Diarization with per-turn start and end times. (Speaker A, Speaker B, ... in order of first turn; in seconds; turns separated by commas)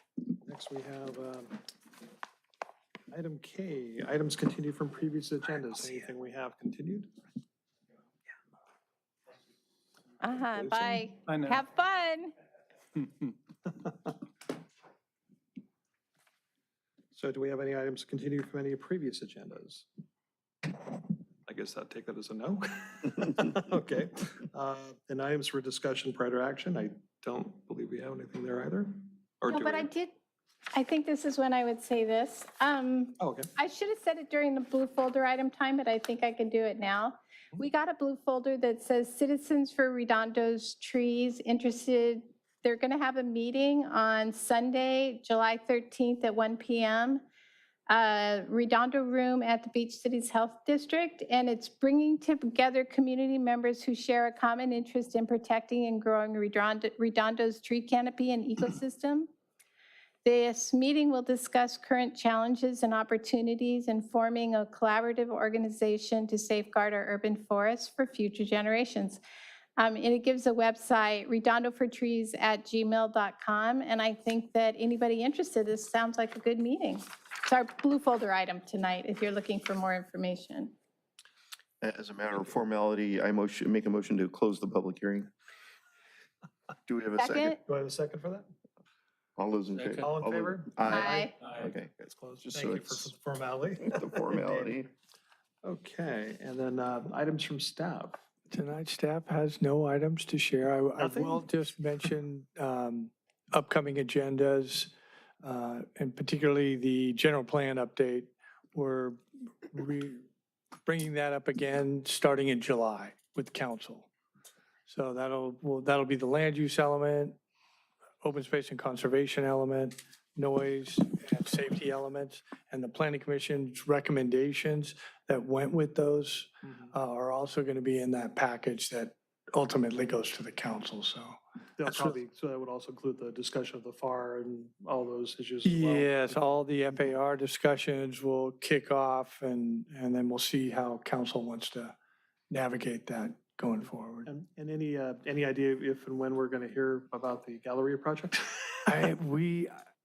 Speaker A: 0.4-1.6, Speaker A: 3.1-7.1, Speaker B: 10.2-12.3, Speaker A: 10.5-11.0, Speaker A: 17.1-19.9, Speaker A: 21.5-29.9, Speaker B: 29.5-30.1, Speaker B: 30.7-47.2, Speaker A: 33.2-33.5, Speaker B: 47.9-59.3, Speaker B: 60.2-69.2, Speaker B: 69.8-80.7, Speaker C: 81.8-85.3, Speaker C: 86.9-87.5, Speaker B: 87.2-87.6, Speaker A: 87.6-88.5, Speaker C: 89.4-93.1, Speaker A: 90.0-91.3, Speaker B: 90.9-91.3, Speaker A: 92.0-94.8, Speaker C: 93.8-94.9, Speaker A: 95.6-98.2, Speaker D: 98.5-104.9, Speaker A: 101.0-101.6, Speaker D: 105.4-109.2, Speaker D: 109.7-110.2, Speaker D: 110.8-114.1, Speaker D: 114.9-117.3, Speaker D: 118.2-132.2, Speaker A: 131.8-136.6, Speaker D: 135.6-141.9, Speaker D: 142.5-144.3, Speaker A: 144.2-149.1, Speaker D: 148.9-149.7